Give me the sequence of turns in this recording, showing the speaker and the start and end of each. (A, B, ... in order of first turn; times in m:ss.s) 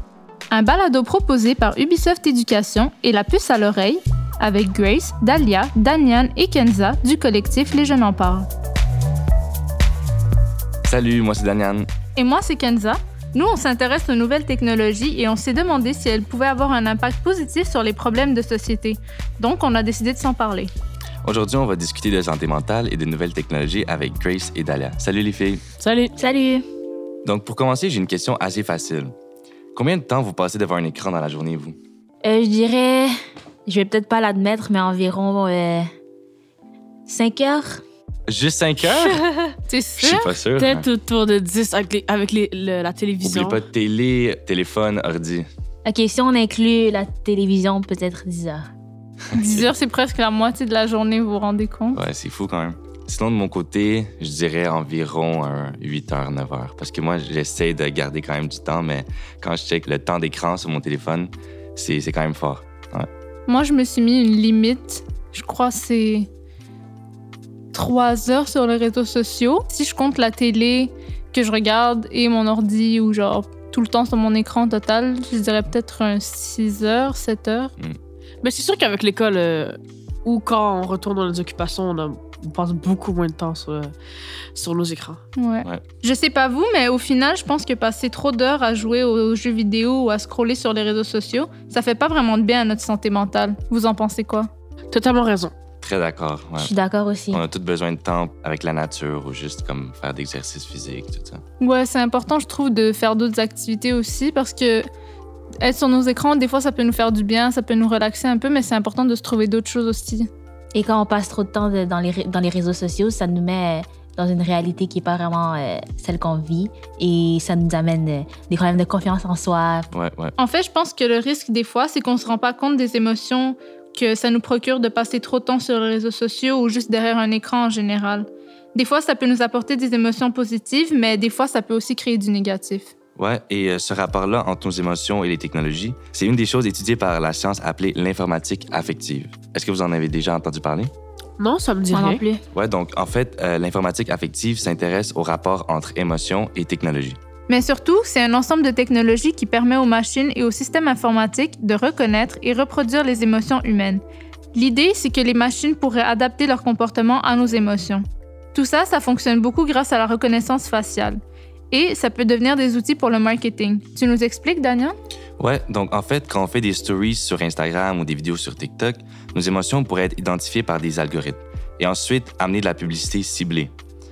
0:00.5-0:08.5 A
0:10.8-0:11.9 B
0:12.2-0:20.7 A
0:21.2-0:25.6 B
0:25.8-0:26.1 C
0:26.2-0:26.6 D
0:27.2-0:29.2 B
0:29.8-0:31.8 B
0:32.2-0:33.1 D
0:33.7-0:35.9 D
0:37.1-0:37.8 D
0:38.3-0:39.2 B
0:39.7-0:40.3 A
0:40.0-0:40.9 B
0:40.6-0:43.6 C
0:43.2-0:45.5 B
0:45.8-0:48.7 D
0:49.3-0:52.0 A
0:49.4-0:49.7 B
0:51.9-1:03.1 B
1:03.5-1:06.3 A
1:07.7-1:17.7 A
1:18.4-1:23.9 C
1:24.6-1:25.2 C
1:25.4-1:34.5 A
1:34.9-1:35.5 C
1:35.8-1:36.7 B
1:36.6-1:37.4 D
1:37.3-1:41.4 B
1:41.6-1:44.9 A
1:45.6-1:50.3 A
1:50.8-1:59.9 D
1:59.9-2:00.3 B
2:00.4-2:12.9 A
2:13.2-2:20.9 B
2:21.4-2:22.2 C
2:21.9-2:22.4 D
2:22.5-2:27.2 B
2:27.5-2:34.0 A
2:34.5-2:41.2 A
2:41.7-2:45.0 A
2:45.4-2:53.7 B